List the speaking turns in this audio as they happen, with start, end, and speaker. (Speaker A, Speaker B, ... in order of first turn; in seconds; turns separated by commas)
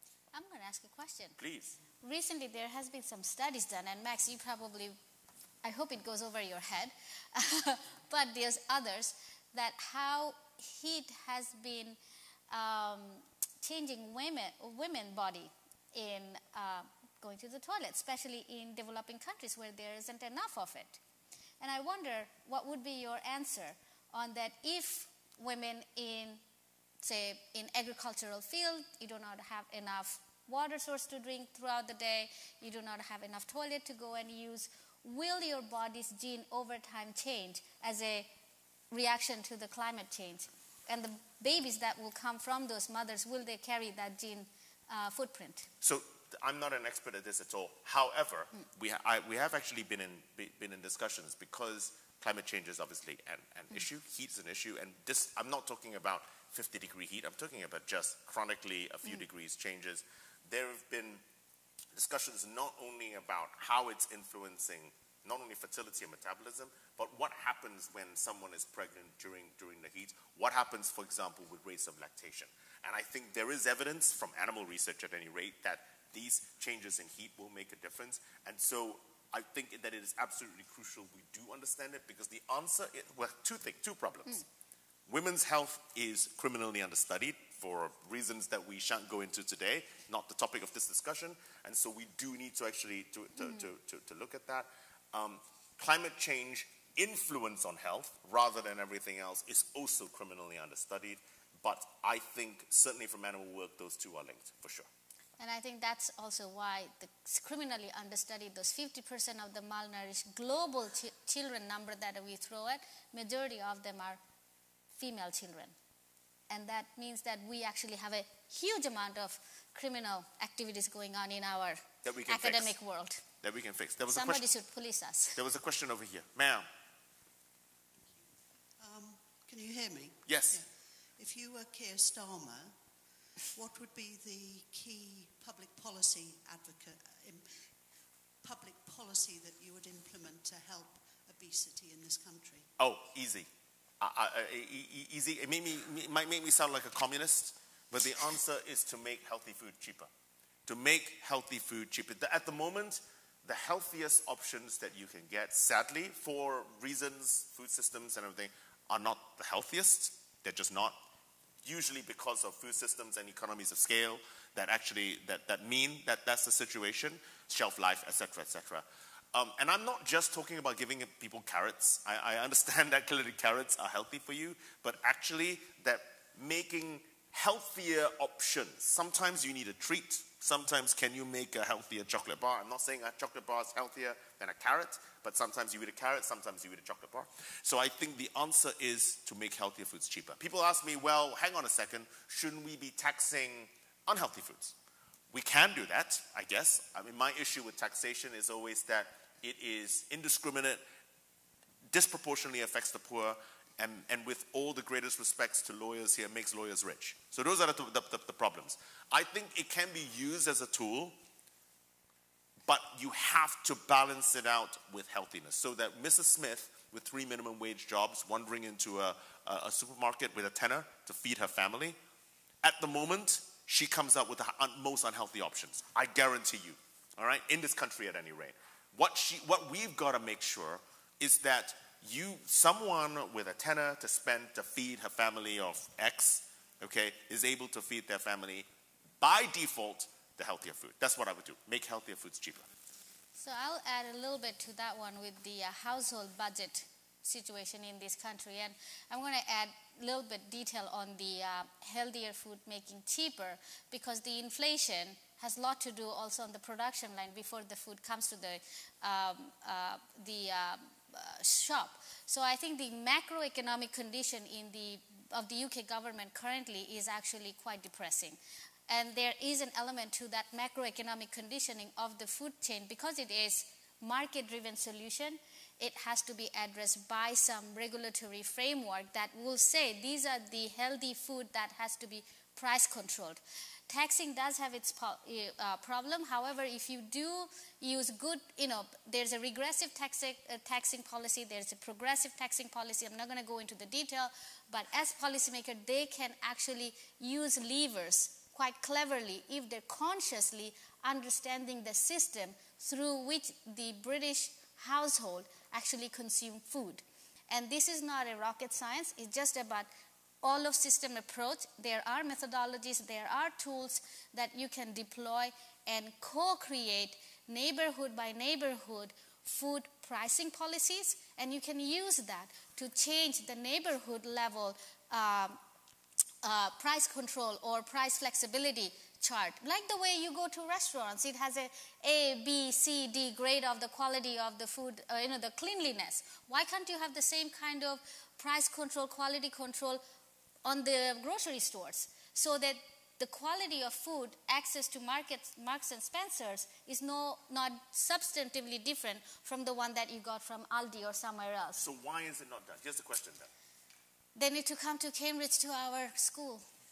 Speaker A: 0.3-1.4, Speaker B: 1.4-1.8, Speaker A: 2.0-5.0, Speaker A: 5.6-12.0, Speaker A: 12.5-21.0, Speaker A: 21.6-26.4, Speaker A: 27.0-38.3, Speaker A: 38.9-45.7, Speaker B: 45.8-61.2, Speaker B: 61.9-84.4, Speaker B: 85.1-104.9, Speaker A: 105.4-114.2, Speaker A: 114.9-115.7, Speaker A: 116.5-123.2, Speaker B: 122.0-122.7, Speaker B: 123.4-124.5, Speaker A: 124.1-125.4, Speaker B: 125.3-126.7, Speaker C: 128.8-132.7, Speaker B: 130.2-130.6, Speaker C: 133.5-137.7, Speaker C: 138.4-142.7, Speaker B: 142.8-143.5, Speaker B: 144.0-150.1, Speaker B: 150.7-161.0, Speaker B: 161.6-194.8, Speaker B: 195.3-200.8, Speaker B: 201.9-211.2, Speaker B: 212.7-222.0, Speaker B: 222.6-238.7, Speaker B: 239.2-242.7, Speaker A: 243.4-268.4, Speaker A: 268.9-309.9, Speaker A: 310.4-325.6, Speaker A: 326.4-340.0, Speaker A: 340.6-351.8, Speaker B: 351.8-353.5, Speaker A: 354.4-356.6